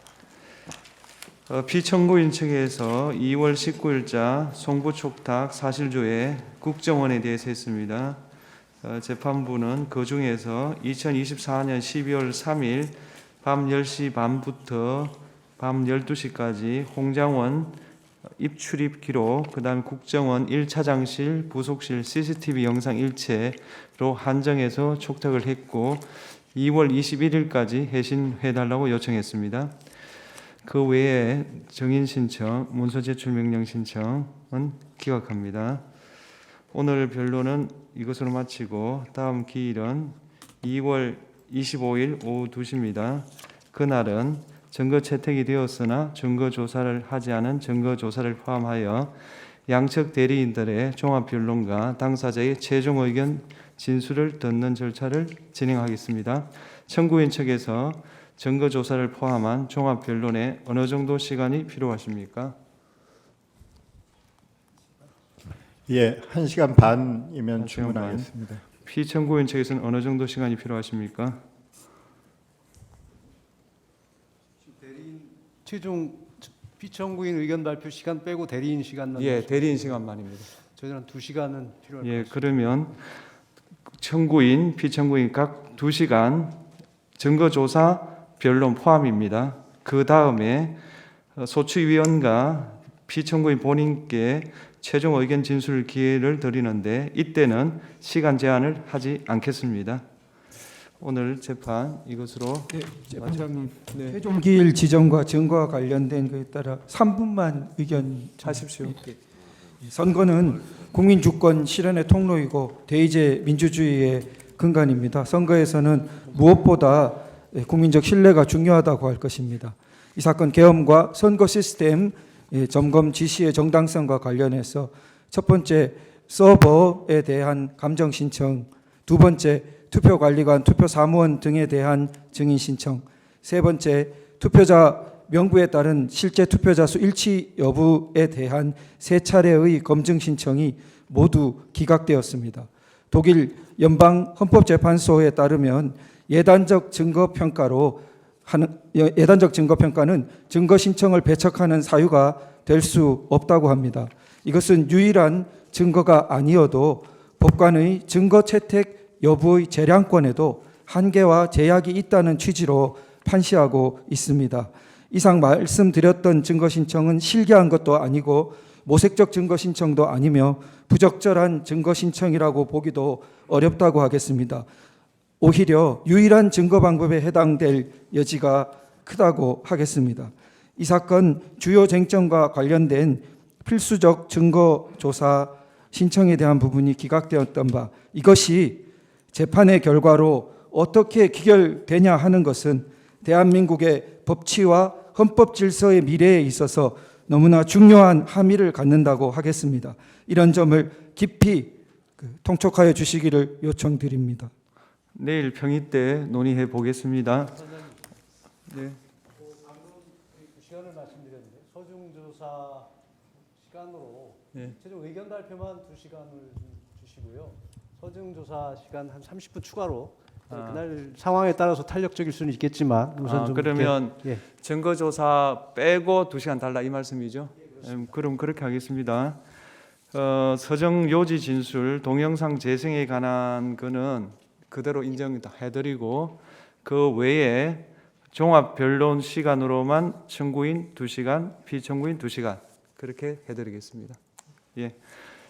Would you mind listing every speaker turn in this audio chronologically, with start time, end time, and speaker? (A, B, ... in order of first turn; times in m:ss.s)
0:01.5-0:08.2 A
0:08.8-0:17.8 A
0:18.4-0:29.8 A
0:30.6-0:35.8 A
0:36.7-1:02.6 A
1:05.9-1:08.6 B
1:07.6-1:08.3 A
1:08.8-1:11.4 A
1:14.7-1:22.6 C
1:19.2-1:20.5 A
1:22.0-1:23.1 A
1:23.9-1:26.6 A
1:27.2-1:30.8 A
1:31.4-1:40.0 A
1:41.0-1:44.2 A
1:42.7-1:49.2 D
1:48.4-1:49.0 A
1:49.8-2:54.6 D
2:55.4-3:24.5 D
3:25.1-3:27.6 A
3:27.7-3:28.0 C
3:28.7-3:29.0 A
3:29.4-3:32.9 C
3:33.6-3:44.4 C
3:40.5-3:40.8 A
3:43.2-3:49.4 A
3:50.1-4:04.2 A
4:04.8-4:05.1 A